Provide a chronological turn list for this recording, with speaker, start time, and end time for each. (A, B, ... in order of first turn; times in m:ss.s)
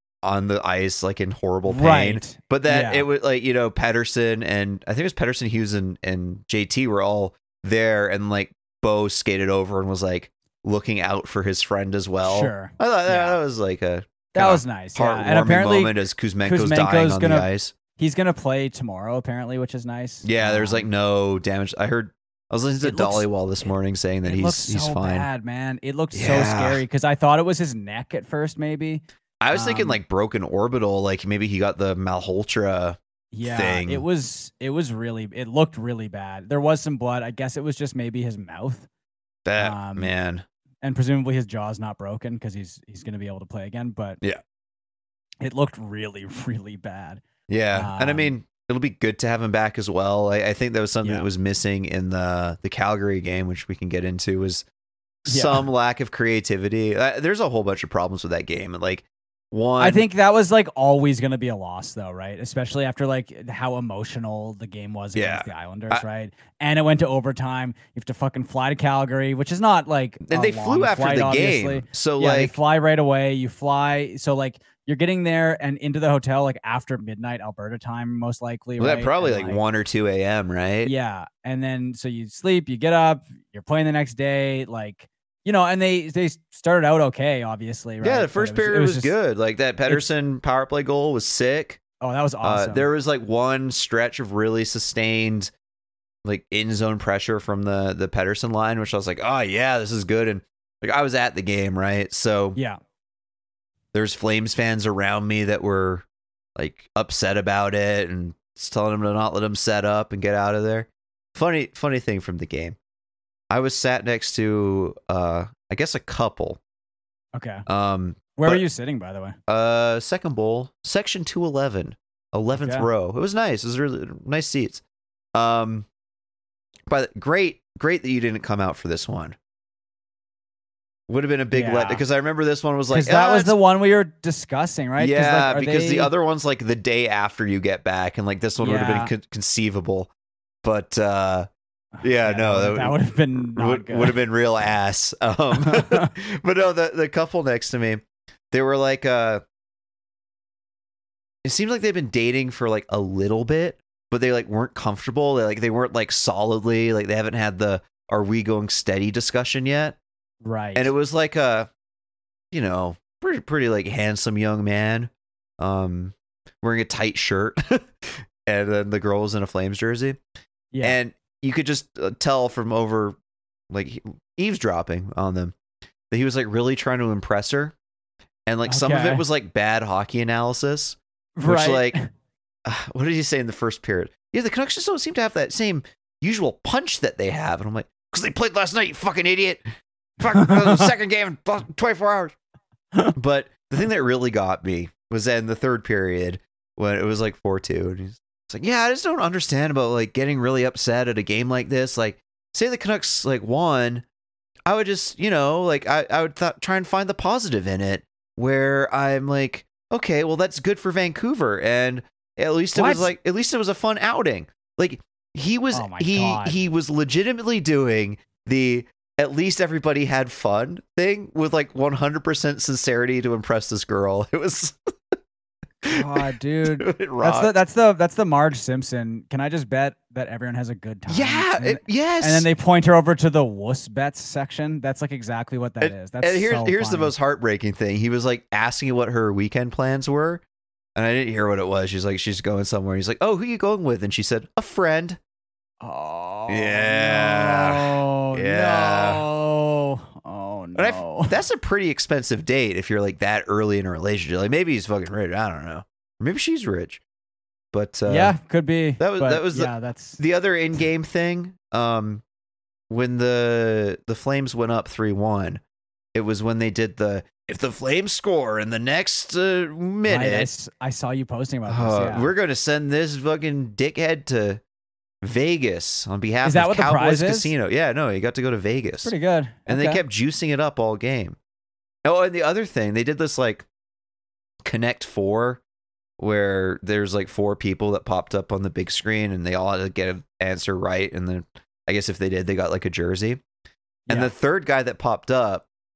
0:00.2-0:17.7 A
0:01.7-0:03.1 B
0:12.2-0:13.4 B
0:14.3-0:20.9 B
0:20.2-0:25.3 A
0:22.8-0:30.0 B
0:26.1-0:26.8 A
0:29.4-0:34.0 A
0:33.3-0:38.9 B
0:39.4-0:40.4 A
0:39.6-0:40.1 B
0:40.8-0:44.2 B
0:45.4-0:47.2 B
0:47.5-0:54.7 A
0:47.7-0:48.3 B
0:51.0-0:51.3 B
0:55.2-1:00.1 A
0:55.3-0:55.7 B
0:59.8-1:19.6 B
1:05.2-1:06.0 A
1:10.2-1:12.6 A
1:18.8-1:20.9 A
1:20.8-1:29.1 B
1:28.0-1:31.8 A
1:32.0-1:32.9 B
1:32.4-1:35.5 A
1:36.2-1:42.6 A
1:43.9-1:46.1 A
1:46.6-1:52.8 A
1:53.5-1:56.6 A
1:57.4-1:57.6 B
1:57.7-1:58.6 A
1:58.4-1:59.4 B
1:59.5-2:04.8 A
2:02.6-2:02.9 B
2:05.4-2:05.9 A
2:06.9-2:09.4 A
2:11.1-2:13.6 A
2:11.5-2:12.0 B
2:12.9-2:16.1 B
2:15.0-2:20.1 A
2:18.6-2:19.1 B
2:20.6-2:21.5 A
2:22.0-2:24.2 B
2:22.0-2:29.4 A
2:25.7-2:26.1 B
2:31.4-2:40.0 A
2:40.4-2:40.9 B
2:40.8-2:41.7 A
2:42.5-2:50.2 A
2:50.7-2:51.0 B
2:50.8-2:53.2 A
2:53.7-2:55.6 A
2:56.1-2:57.8 A
2:58.5-3:02.0 A
2:58.7-2:59.2 B
3:01.4-3:02.1 B
3:02.6-3:12.4 A
3:13.1-3:24.0 A
3:24.7-3:45.2 A
3:32.7-3:33.1 B
3:35.7-3:36.6 B
3:45.8-3:46.2 A
3:45.9-3:57.1 B
3:46.8-3:47.5 A
3:51.1-3:52.5 A
3:55.8-4:00.4 A
4:01.0-4:05.2 A
4:05.8-4:11.4 B
4:06.5-4:09.2 A
4:10.8-4:17.0 A
4:17.7-4:18.4 A
4:18.1-4:20.2 B
4:19.0-4:22.2 A
4:22.9-4:25.6 A
4:26.1-4:30.5 A
4:30.1-4:32.3 B
4:31.7-4:34.6 A
4:35.2-4:39.1 A
4:36.4-4:37.5 B
4:39.0-4:40.0 B
4:39.7-4:41.4 A
4:42.0-4:43.7 A
4:44.6-4:45.6 A
4:46.2-4:53.4 A
4:54.1-4:55.7 A